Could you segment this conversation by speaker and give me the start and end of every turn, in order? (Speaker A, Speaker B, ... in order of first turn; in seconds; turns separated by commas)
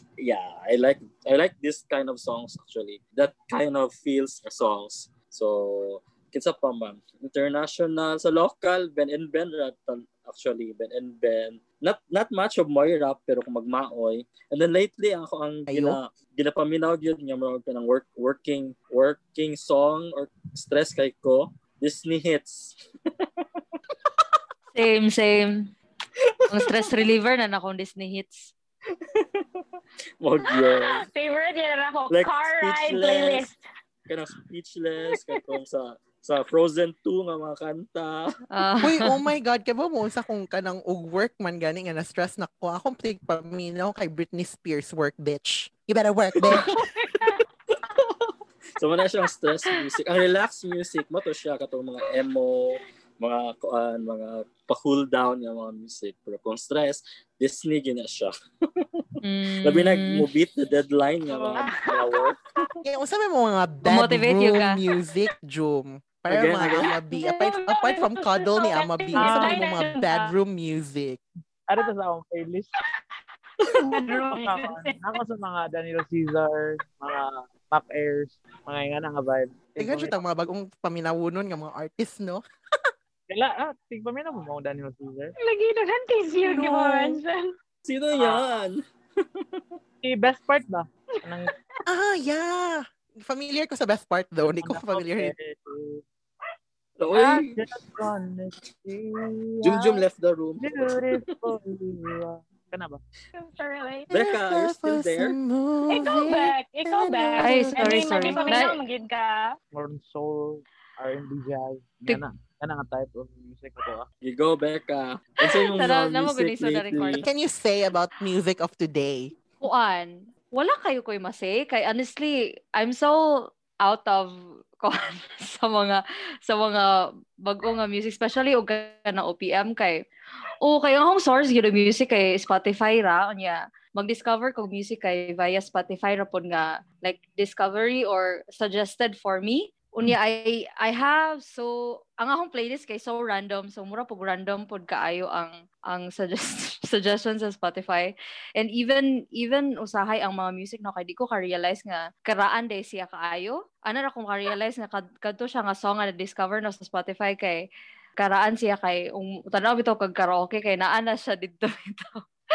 Speaker A: 0.2-23.4, Speaker B: 15.7-16.0, Speaker C: 24.7-25.7, Speaker A: 26.4-26.9, Speaker C: 26.5-28.5, Speaker A: 28.9-29.6, Speaker A: 30.2-31.1, Speaker D: 30.5-33.6, Speaker A: 32.1-33.5, Speaker A: 34.1-38.4, Speaker C: 38.5-39.1, Speaker B: 38.8-46.8, Speaker A: 46.4-46.8, Speaker D: 46.8-47.4, Speaker A: 47.7-59.0, Speaker C: 59.2-60.2, Speaker A: 59.6-62.4, Speaker D: 61.2-62.3, Speaker B: 62.8-71.2, Speaker C: 63.8-64.8, Speaker A: 66.3-66.9, Speaker D: 67.1-70.3, Speaker E: 69.1-69.6, Speaker E: 71.7-72.7, Speaker D: 73.9-75.0, Speaker E: 73.9-80.2, Speaker B: 79.8-82.4, Speaker E: 83.3-85.3, Speaker D: 85.4-87.5, Speaker A: 87.8-89.8, Speaker E: 90.0-91.5, Speaker B: 91.9-95.3, Speaker E: 94.4-96.0, Speaker A: 97.0-97.6, Speaker E: 97.1-100.0, Speaker A: 99.6-101.2, Speaker E: 100.6-103.0, Speaker D: 103.3-104.1, Speaker A: 104.1-105.3, Speaker B: 104.1-108.6, Speaker D: 105.9-109.5, Speaker C: 107.4-108.8, Speaker E: 109.7-114.1, Speaker A: 114.2-117.2, Speaker C: 115.5-117.2, Speaker B: 117.2-119.3, Speaker C: 119.6-130.0, Speaker C: 130.6-157.6, Speaker C: 158.2-162.2